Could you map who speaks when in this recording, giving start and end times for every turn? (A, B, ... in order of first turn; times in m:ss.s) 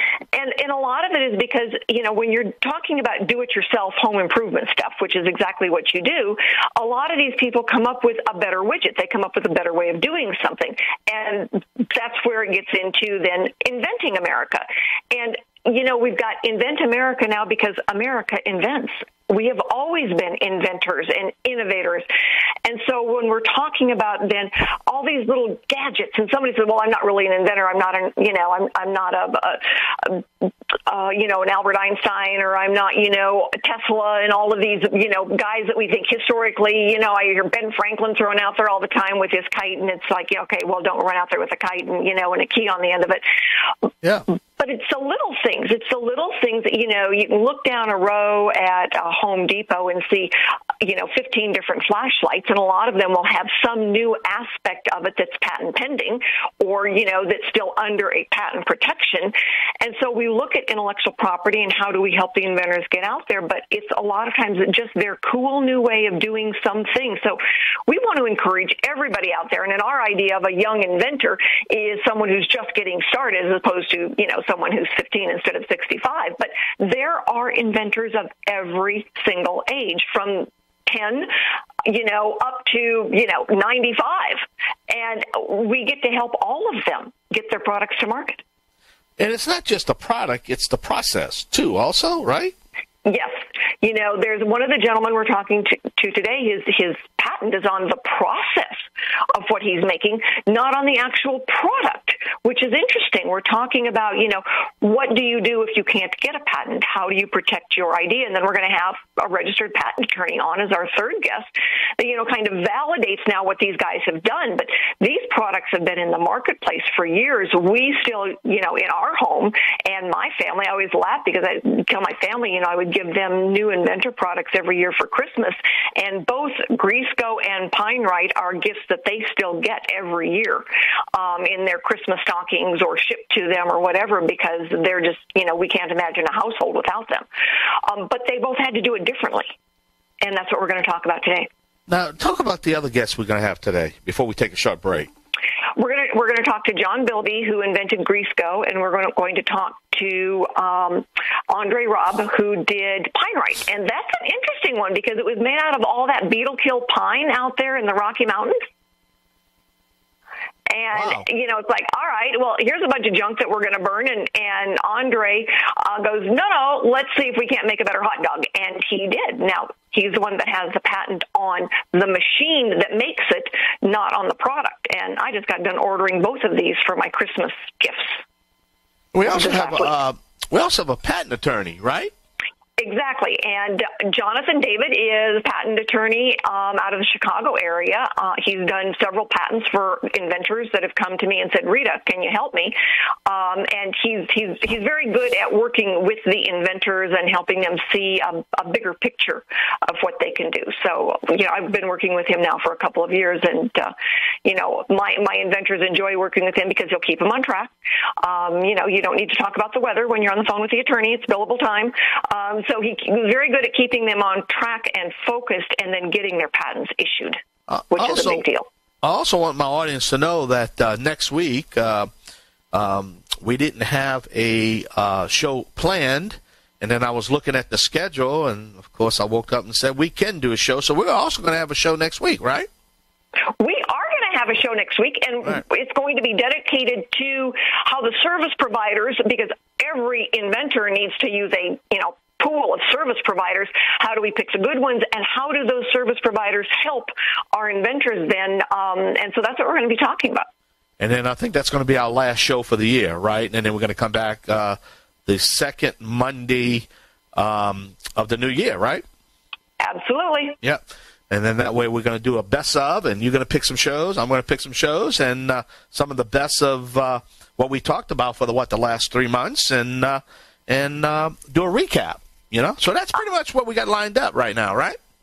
0:00.3-0:22.1 A
0:22.6-0:43.2 A
0:44.6-1:21.3 A
1:21.8-1:28.4 A
1:29.2-1:32.5 B
1:33.0-1:38.8 A
1:39.3-2:17.2 A
2:17.8-2:19.5 A
2:20.2-2:21.5 A
2:21.9-2:25.1 B
2:25.8-2:38.6 A
2:40.7-2:58.2 A
2:40.9-2:41.2 B
2:59.1-3:02.1 B
2:59.2-2:59.9 A
3:02.8-3:12.7 A
3:13.2-3:23.9 A
3:24.4-3:38.7 A
3:37.7-3:38.4 B
3:39.0-3:42.1 B
3:42.7-3:52.7 B
3:53.6-4:10.4 A
4:11.0-4:19.0 B
4:19.8-4:20.6 A
4:20.6-4:35.0 B